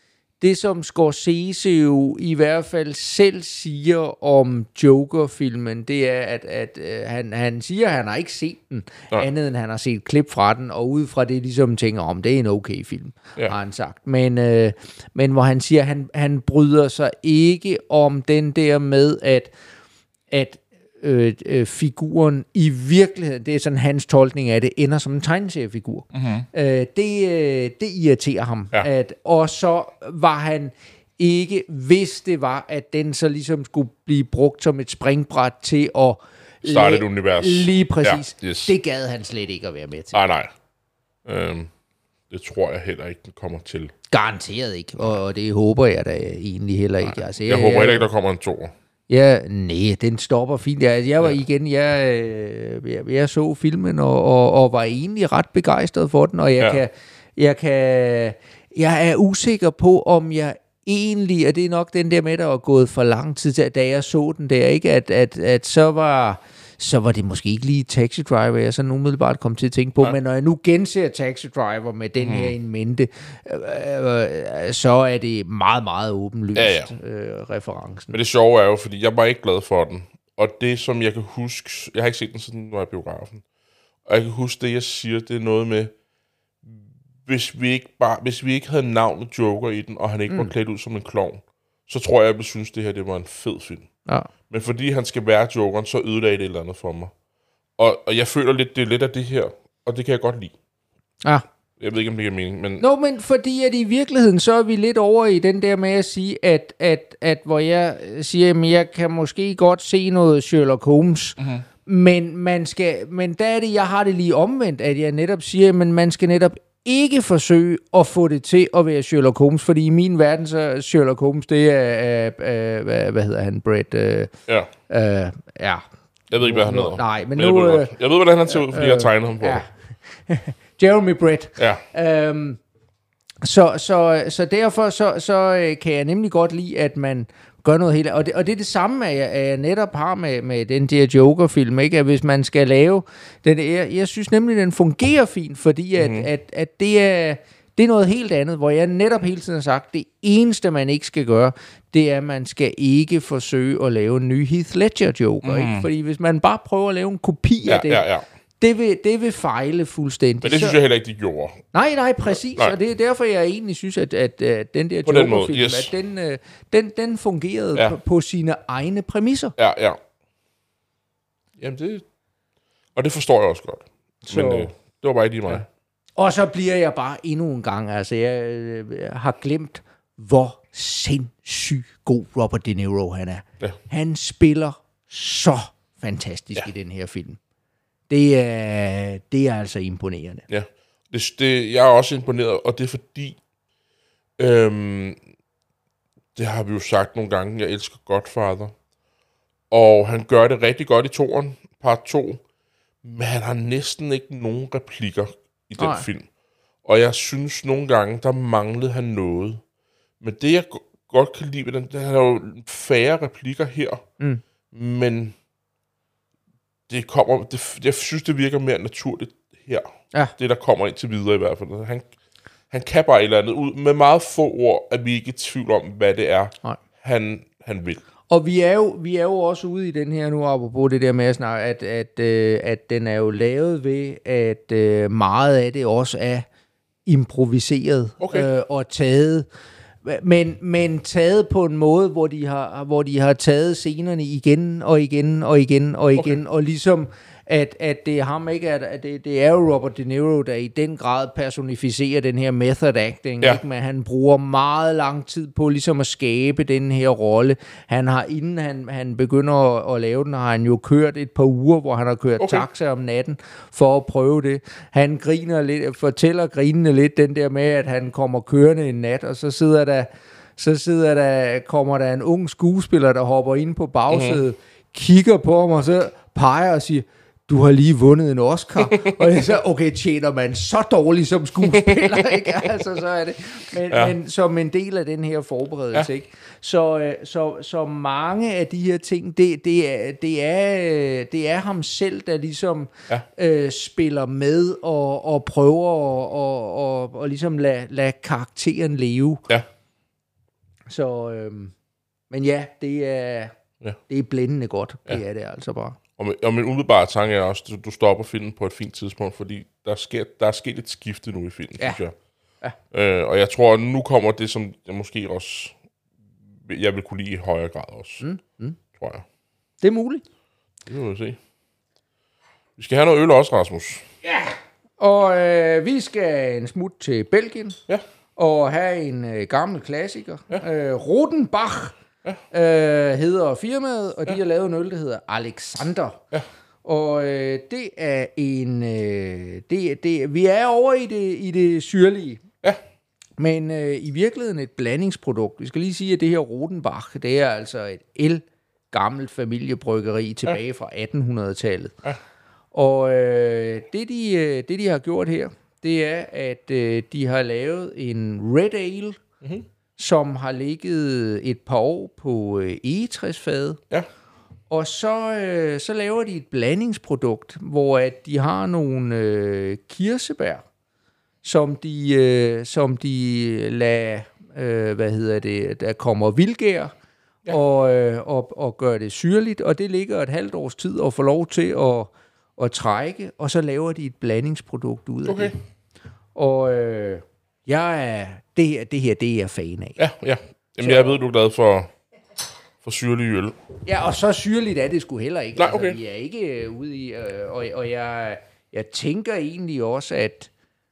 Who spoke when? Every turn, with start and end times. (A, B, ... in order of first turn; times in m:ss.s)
0:00.4-0:19.5 A
0:20.3-0:40.2 A
0:26.1-0:26.5 B
0:36.6-0:38.7 B
0:40.1-0:40.5 B
0:41.2-0:41.7 B
0:42.3-0:43.9 B
0:44.1-0:48.1 A
0:47.0-0:48.7 B
0:49.1-1:18.2 A
1:12.2-1:12.5 B
1:16.6-1:16.9 B
1:18.1-1:23.4 B
1:24.1-1:25.9 B
1:26.6-1:33.9 B
1:34.5-1:37.1 B
1:37.8-1:40.6 B
1:41.8-1:42.8 B
1:42.8-2:04.3 A
1:51.4-1:51.7 B
2:04.9-2:05.8 A
2:06.3-2:09.6 B
2:06.4-2:08.0 A
2:08.5-2:12.6 A
2:11.6-2:11.8 B
2:13.4-2:38.1 A
2:26.0-2:26.3 B
2:35.4-2:35.9 B
2:37.7-2:38.2 B
2:38.6-2:40.8 A
2:40.4-2:41.6 B
2:41.7-2:49.6 A
2:45.1-2:45.9 B
2:49.6-2:50.0 B
2:51.6-2:52.0 B
2:53.0-2:55.6 B
2:54.2-2:54.7 A
2:56.2-3:07.4 A
3:08.1-3:10.4 A
3:10.5-3:13.4 B
3:14.4-3:15.2 B
3:16.4-3:18.7 B
3:19.7-3:22.4 B
3:23.0-3:26.3 B
3:25.8-3:26.1 A
3:26.8-3:29.6 B
3:30.2-3:34.0 B
3:34.7-3:35.4 B
3:36.9-3:42.1 B
3:42.7-3:48.0 B
3:48.3-3:56.5 A
3:57.1-3:59.5 A
3:58.2-3:58.5 B
4:00.0-4:59.4 A
4:22.4-4:22.7 B
4:34.1-4:34.4 B
4:38.8-4:39.3 B
4:41.6-4:42.6 B
5:00.9-5:01.7 A
5:02.3-5:03.6 A
5:04.1-5:06.0 A
5:06.2-5:12.2 B
5:12.9-5:15.8 B
5:16.6-5:18.2 B
5:18.2-5:18.8 A
5:18.9-5:19.3 B
5:19.8-5:20.2 A
5:20.9-5:21.4 B
5:22.8-5:24.1 B
5:24.2-5:27.8 A
5:28.4-5:32.0 A
5:32.5-5:36.2 A
5:36.8-5:42.4 A
5:43.4-5:52.0 A
5:52.7-5:59.2 A
5:59.4-5:59.7 B
6:00.0-6:03.8 A
6:04.7-6:10.6 A
6:11.4-6:16.9 A
6:17.5-6:25.5 A
6:25.2-6:25.5 B
6:26.4-6:30.0 A
6:30.0-6:31.9 B
6:30.8-6:31.2 A
6:32.8-6:33.6 B
6:33.8-6:40.5 A
6:35.6-6:36.0 B